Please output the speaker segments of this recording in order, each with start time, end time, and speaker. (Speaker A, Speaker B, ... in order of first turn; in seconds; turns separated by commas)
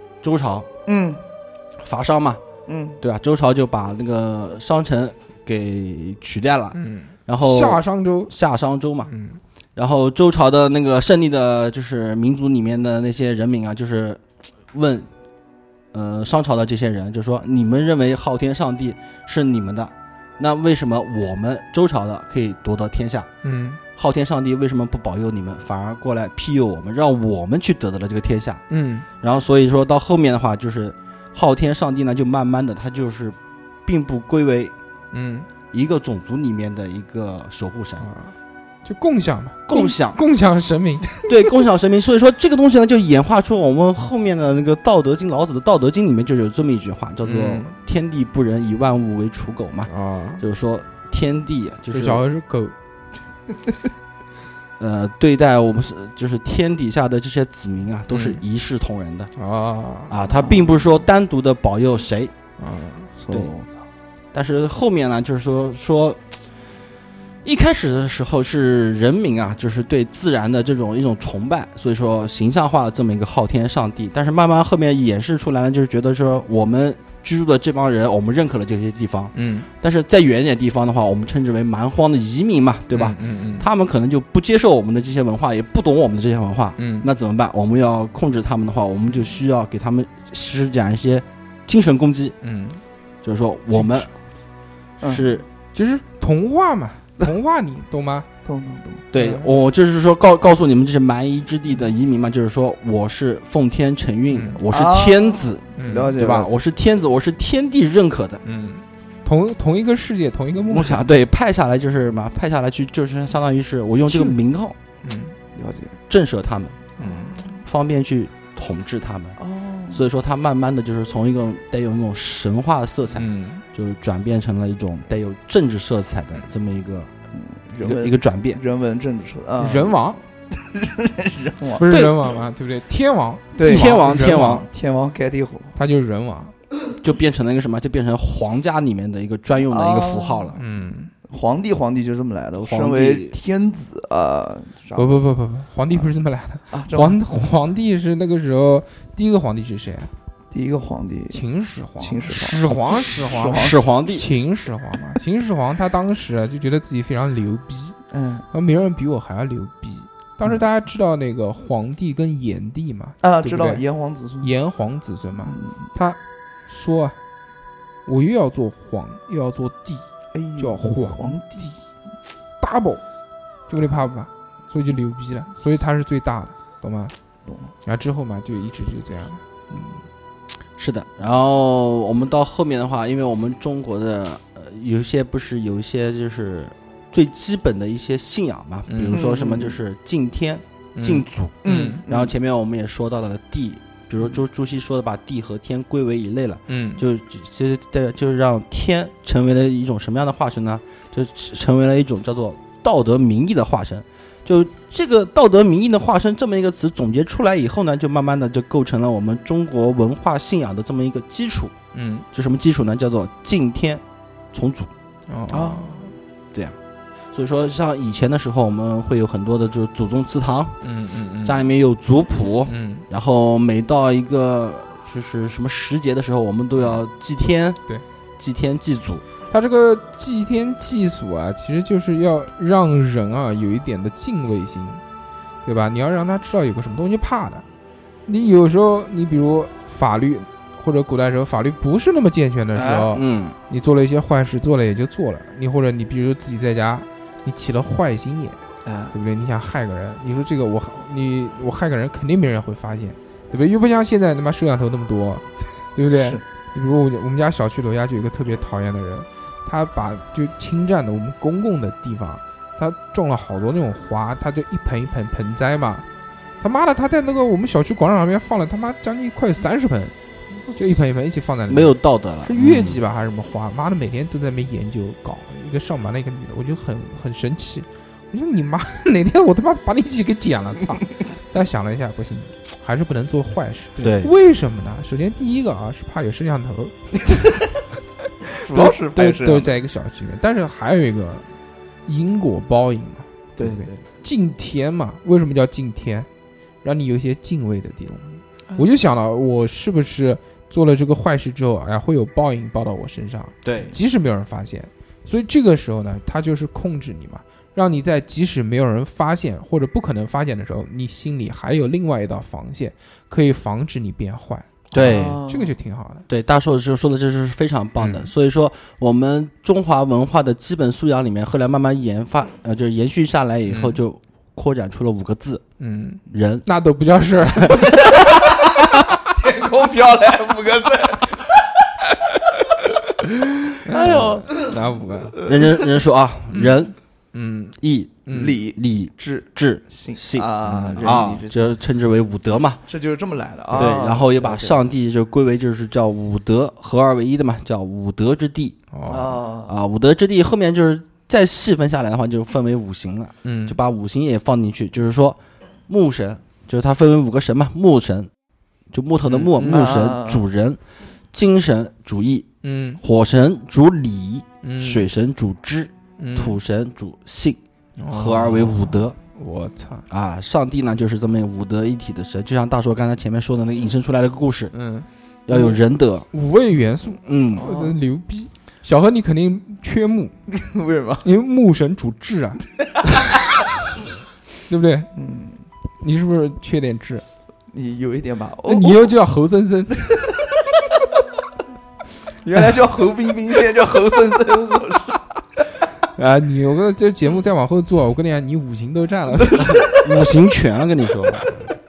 Speaker A: 0.2-0.7, Speaker B: 0.8-1.2, Speaker A: 1.8-2.4, Speaker B: 2.7-3.0, Speaker A: 3.0-9.1, Speaker C: 6.7-8.3, Speaker C: 9.1-9.4, Speaker A: 9.8-15.1, Speaker A: 15.9-23.3, Speaker C: 23.4-23.8, Speaker A: 23.9-28.6, Speaker C: 28.7-29.1, Speaker A: 29.2-34.7, Speaker C: 35.1-35.5, Speaker A: 35.7-38.1, Speaker C: 38.0-38.3, Speaker C: 38.8-41.3, Speaker A: 39.7-40.2, Speaker A: 41.2-52.2, Speaker C: 47.2-47.7, Speaker C: 49.9-50.4, Speaker C: 51.9-52.7, Speaker A: 54.8-59.3, Speaker C: 58.1-58.4, Speaker C: 59.4-60.1, Speaker A: 60.1-62.3, Speaker B: 60.3-60.7, Speaker C: 62.6-63.1, Speaker B: 63.2-63.8, Speaker A: 64.3-66.2, Speaker A: 67.4-92.3, Speaker C: 79.3-79.7, Speaker C: 82.9-83.7, Speaker C: 86.8-87.1, Speaker C: 92.4-92.8, Speaker A: 93.2-94.1, Speaker C: 93.8-94.0, Speaker B: 95.0-95.3, Speaker A: 95.0-95.5, Speaker C: 95.7-98.3, Speaker B: 98.4-99.1, Speaker A: 99.1-108.4, Speaker C: 99.2-99.5, Speaker C: 104.3-104.6, Speaker B: 104.7-106.5, Speaker C: 105.8-106.1, Speaker C: 108.4-111.0, Speaker A: 110.7-114.8, Speaker C: 114.1-114.3, Speaker C: 115.0-115.3, Speaker B: 115.5-116.0, Speaker A: 116.1-116.9, Speaker C: 117.0-117.4, Speaker B: 117.0-117.6, Speaker A: 117.6-119.4, Speaker B: 119.4-120.1, Speaker A: 119.9-127.1, Speaker C: 123.1-123.6, Speaker B: 127.3-130.0, Speaker A: 127.8-128.6, Speaker C: 129.6-130.2, Speaker B: 130.5-131.9, Speaker C: 131.7-134.7, Speaker A: 131.9-132.2, Speaker B: 133.5-135.8, Speaker A: 133.6-134.7, Speaker C: 135.8-136.5, Speaker A: 137.0-140.6, Speaker B: 139.6-140.6, Speaker C: 140.6-141.1, Speaker B: 141.3-145.2, Speaker A: 142.6-143.3, Speaker C: 144.9-150.1, Speaker B: 146.7-147.2, Speaker B: 150.5-151.4, Speaker C: 151.3-158.0, Speaker B: 152.0-153.8, Speaker A: 153.5-154.2, Speaker B: 158.1-158.5, Speaker C: 158.5-163.8, Speaker B: 163.2-164.5, Speaker C: 164.4-167.2, Speaker B: 165.4-165.9, Speaker C: 168.1-170.1, Speaker B: 170.3-171.8, Speaker C: 170.6-171.7, Speaker C: 172.6-173.0, Speaker C: 173.7-177.1, Speaker B: 177.4-177.7, Speaker C: 177.8-179.4, Speaker B: 179.7-180.0, Speaker A: 180.8-211.7, Speaker C: 188.9-189.2, Speaker B: 189.1-189.8, Speaker C: 190.9-192.0, Speaker B: 191.6-192.3, Speaker C: 196.7-197.0, Speaker C: 211.9-212.2, Speaker A: 212.3-214.0, Speaker A: 214.5-214.9, Speaker C: 215.3-216.1, Speaker B: 215.5-216.0, Speaker A: 217.3-220.8, Speaker C: 220.8-221.6, Speaker A: 221.4-227.8, Speaker C: 222.7-223.1, Speaker A: 228.4-229.2, Speaker C: 229.5-235.0, Speaker C: 235.6-237.6, Speaker C: 238.2-248.6, Speaker B: 242.7-243.1, Speaker A: 243.1-243.6, Speaker B: 248.8-249.1, Speaker C: 249.1-266.1, Speaker B: 256.1-256.4, Speaker C: 266.6-270.1, Speaker C: 270.8-287.6, Speaker A: 271.7-273.0, Speaker A: 284.0-284.3, Speaker C: 288.5-291.4, Speaker B: 288.6-289.7, Speaker C: 292.1-296.3, Speaker B: 293.6-294.0, Speaker C: 296.8-316.2, Speaker A: 303.6-303.9, Speaker A: 314.9-315.4, Speaker B: 314.9-315.7, Speaker A: 316.3-325.6, Speaker C: 318.0-318.3, Speaker C: 323.7-324.0, Speaker C: 325.8-328.5, Speaker A: 326.3-326.6, Speaker B: 327.8-334.8, Speaker C: 333.8-335.4, Speaker B: 335.4-335.9, Speaker A: 335.4-336.9, Speaker C: 337.3-338.6, Speaker A: 337.8-342.8, Speaker B: 338.3-341.8, Speaker C: 340.6-341.2, Speaker B: 342.9-344.8, Speaker A: 343.7-348.8, Speaker C: 348.9-349.4, Speaker B: 349.1-349.8, Speaker A: 349.6-358.3, Speaker C: 353.4-353.8, Speaker A: 358.9-360.8, Speaker C: 359.2-359.9, Speaker B: 359.6-360.4, Speaker A: 361.3-362.5, Speaker C: 362.6-363.0, Speaker A: 363.0-367.6, Speaker C: 364.6-365.1, Speaker C: 366.2-366.6, Speaker C: 368.0-370.1, Speaker A: 368.1-369.2, Speaker A: 370.1-374.7, Speaker C: 374.7-375.1, Speaker A: 375.5-376.3, Speaker C: 376.3-380.3, Speaker A: 377.2-377.7, Speaker B: 377.6-378.0, Speaker B: 380.5-381.2, Speaker C: 381.2-383.2, Speaker B: 383.0-383.3, Speaker C: 384.7-385.1, Speaker B: 385.1-385.6, Speaker C: 386.0-387.2, Speaker B: 387.7-389.1, Speaker C: 388.6-390.1, Speaker B: 390.0-390.6, Speaker B: 392.4-395.4, Speaker C: 396.1-399.9, Speaker B: 399.4-400.3, Speaker A: 399.6-401.6